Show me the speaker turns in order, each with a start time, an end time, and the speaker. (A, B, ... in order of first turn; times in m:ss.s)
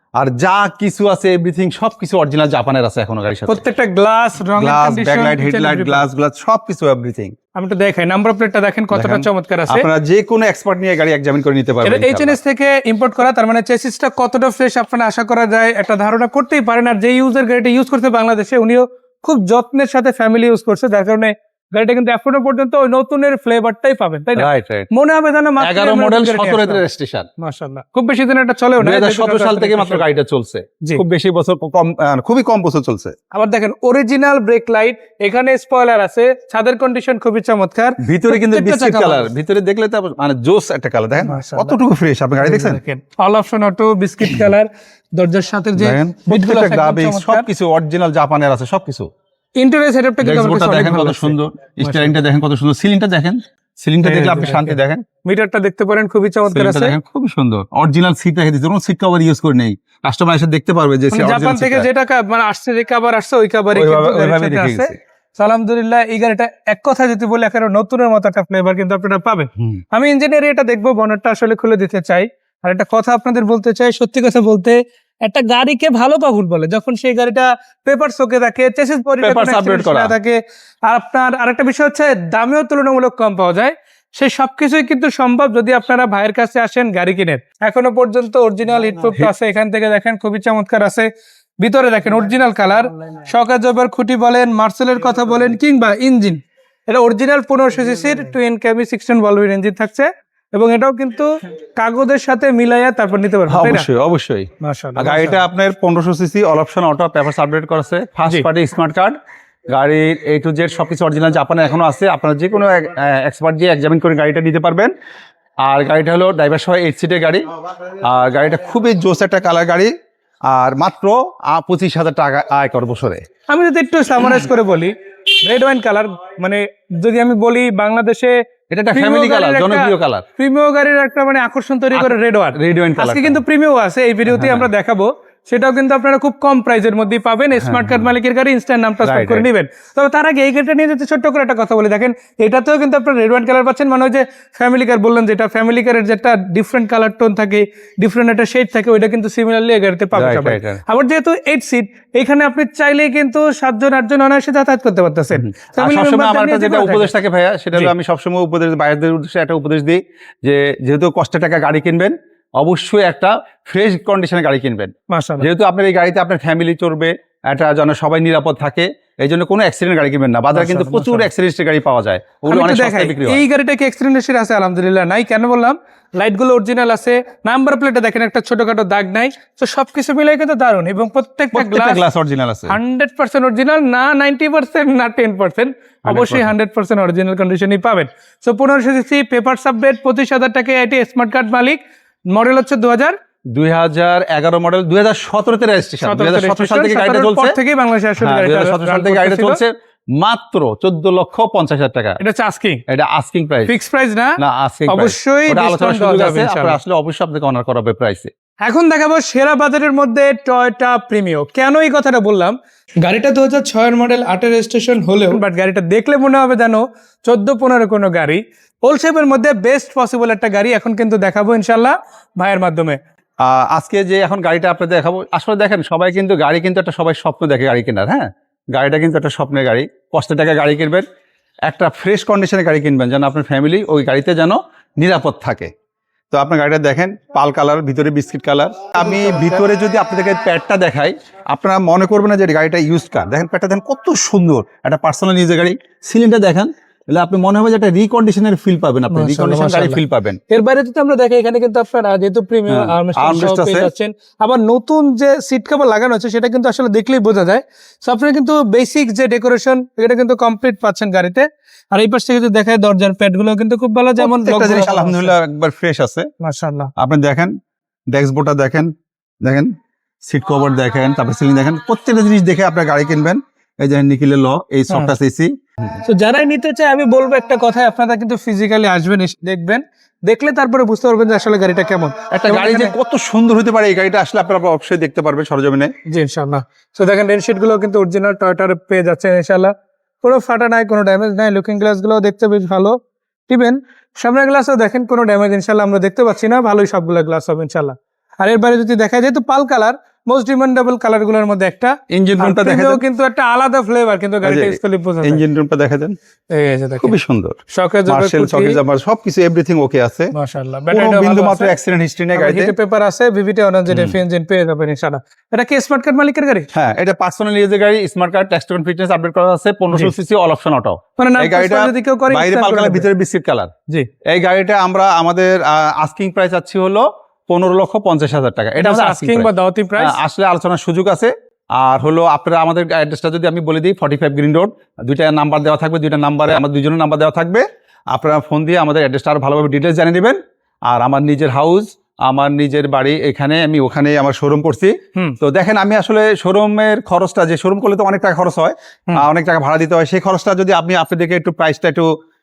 0:00.2-0:03.6 A
0:03.5-0:06.1 B
0:04.6-0:07.3 A
0:07.6-0:09.8 B
0:08.9-0:12.4 A
0:11.8-0:26.8 B
0:24.4-0:24.9 A
0:25.6-0:27.3 A
0:27.4-0:30.0 B
0:28.8-0:33.2 A
0:33.3-0:39.3 B
0:38.0-0:42.8 A
0:41.2-0:41.8 B
0:42.4-0:47.5 B
0:45.8-0:49.1 A
0:49.6-0:52.2 B
0:50.2-0:55.0 A
0:54.0-0:56.9 B
0:56.5-1:01.9 A
1:01.1-1:31.1 B
1:03.7-1:05.0 A
1:19.2-1:20.1 A
1:31.6-1:43.9 B
1:43.5-1:49.2 A
1:44.6-1:45.4 B
1:49.7-1:54.9 A
1:55.7-1:57.5 A
1:58.0-1:59.9 A
2:00.5-2:03.2 A
2:03.5-2:08.4 B
2:08.7-2:10.2 A
2:08.9-2:37.1 B
2:11.9-2:13.4 A
2:14.3-2:14.7 A
2:17.6-2:18.1 A
2:19.0-2:19.5 A
2:30.1-2:30.8 A
2:35.4-2:53.4 A
2:45.1-2:45.5 B
2:50.5-2:51.3 B
2:52.5-3:02.0 B
3:01.5-3:02.8 A
3:02.7-3:11.8 B
3:06.0-3:06.5 A
3:12.3-3:13.2 B
3:13.5-3:17.6 A
3:16.0-3:19.6 B
3:18.2-3:22.2 A
3:22.2-3:22.8 B
3:22.9-3:23.7 A
3:23.7-3:26.8 B
3:24.4-3:28.3 A
3:28.6-3:43.0 B
3:43.4-3:51.0 A
3:51.7-3:55.7 A
3:56.3-4:10.4 A
3:59.0-3:59.6 B
4:09.1-4:25.3 B
4:12.7-4:13.9 A
4:24.2-4:26.3 A
4:26.4-4:26.9 B
4:27.0-4:27.5 A
4:28.1-4:29.7 A
4:30.2-4:35.5 A
4:36.0-4:43.0 B
4:42.3-4:45.9 A
4:46.1-4:53.0 B
4:53.5-5:05.4 B
5:02.1-5:03.0 A
5:04.4-5:06.2 A
5:06.5-5:07.1 B
5:07.0-5:10.3 A
5:07.7-5:08.8 B
5:10.3-5:11.7 B
5:10.9-5:12.7 A
5:12.3-5:16.7 B
5:13.9-5:14.2 A
5:16.7-5:23.7 A
5:21.2-5:23.1 B
5:24.3-5:40.4 A
5:28.8-5:30.2 B
5:40.9-5:52.1 A